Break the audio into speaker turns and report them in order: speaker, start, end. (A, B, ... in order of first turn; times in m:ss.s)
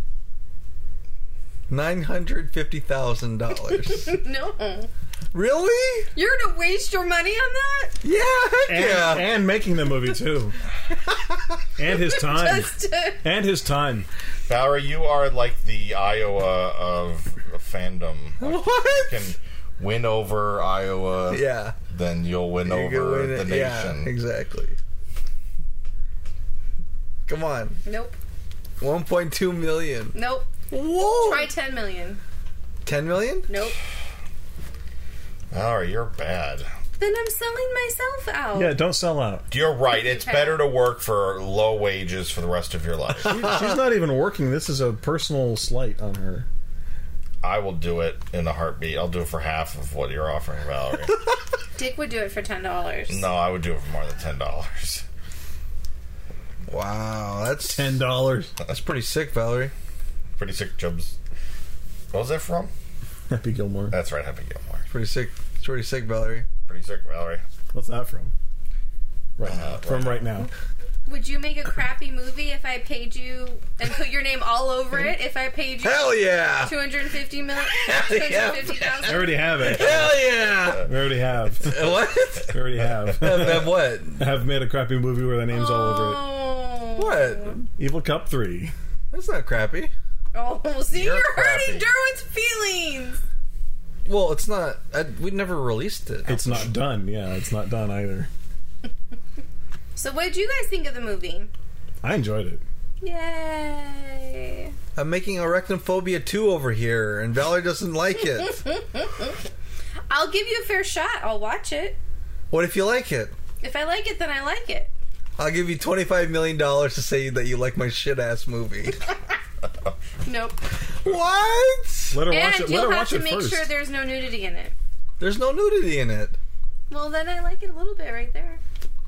0:01.7-0:04.1 A
0:03.9-0:04.9 B
0:05.3-0:06.1 A
0:06.1-0:08.0 B
0:08.0-0:09.3 A
0:08.7-0:10.6 C
0:11.8-0:14.1 C
0:11.9-0:13.2 B
0:14.5-0:24.1 D
0:18.4-0:19.3 A
0:21.3-0:21.8 A
0:22.6-0:24.8 A
0:27.3-0:27.8 A
0:27.8-0:28.2 B
0:28.8-0:30.2 A
0:30.1-0:32.2 B
0:30.7-0:31.5 A
0:32.8-0:33.5 A
0:33.5-0:33.8 B
0:35.5-0:36.7 D
0:37.0-0:38.7 B
0:38.5-0:39.5 C
0:39.5-0:43.4 D
0:39.9-0:40.6 B
0:43.2-0:46.4 C
0:47.4-0:51.1 D
0:51.8-0:53.2 B
0:53.1-0:55.0 D
0:56.7-0:58.0 A
0:57.7-0:58.5 C
0:58.6-0:59.7 A
1:00.4-1:01.2 D
1:02.1-1:02.7 D
1:03.3-1:04.0 C
1:03.9-1:04.8 D
1:04.9-1:06.5 A
1:06.7-1:07.4 D
1:07.7-1:08.3 C
1:09.4-1:10.5 C
1:09.4-1:10.3 D
1:11.0-1:19.7 B
1:15.8-1:16.7 A
1:17.7-1:20.9 A
1:19.0-1:20.2 C
1:19.8-1:20.8 D
1:20.8-1:26.2 C
1:21.6-1:22.6 A
1:23.2-1:24.2 A
1:25.5-1:27.6 B
1:27.0-1:27.6 A
1:27.8-1:28.7 C
1:29.1-1:29.9 A
1:30.3-1:33.2 B
1:30.9-1:31.9 D
1:34.0-1:36.7 A
1:36.3-1:38.3 C
1:39.9-1:41.5 B
1:42.0-1:42.6 C
1:43.0-1:44.7 B
1:44.9-1:48.6 A
1:48.4-1:49.3 B
1:50.1-1:52.0 B
1:52.5-1:53.3 A
1:53.6-1:54.9 B
1:55.4-1:59.0 A
2:00.2-2:00.6 B
2:01.0-2:02.2 A
2:02.1-2:03.7 C
2:02.3-2:04.7 B
2:05.2-2:06.4 A
2:06.9-2:08.6 B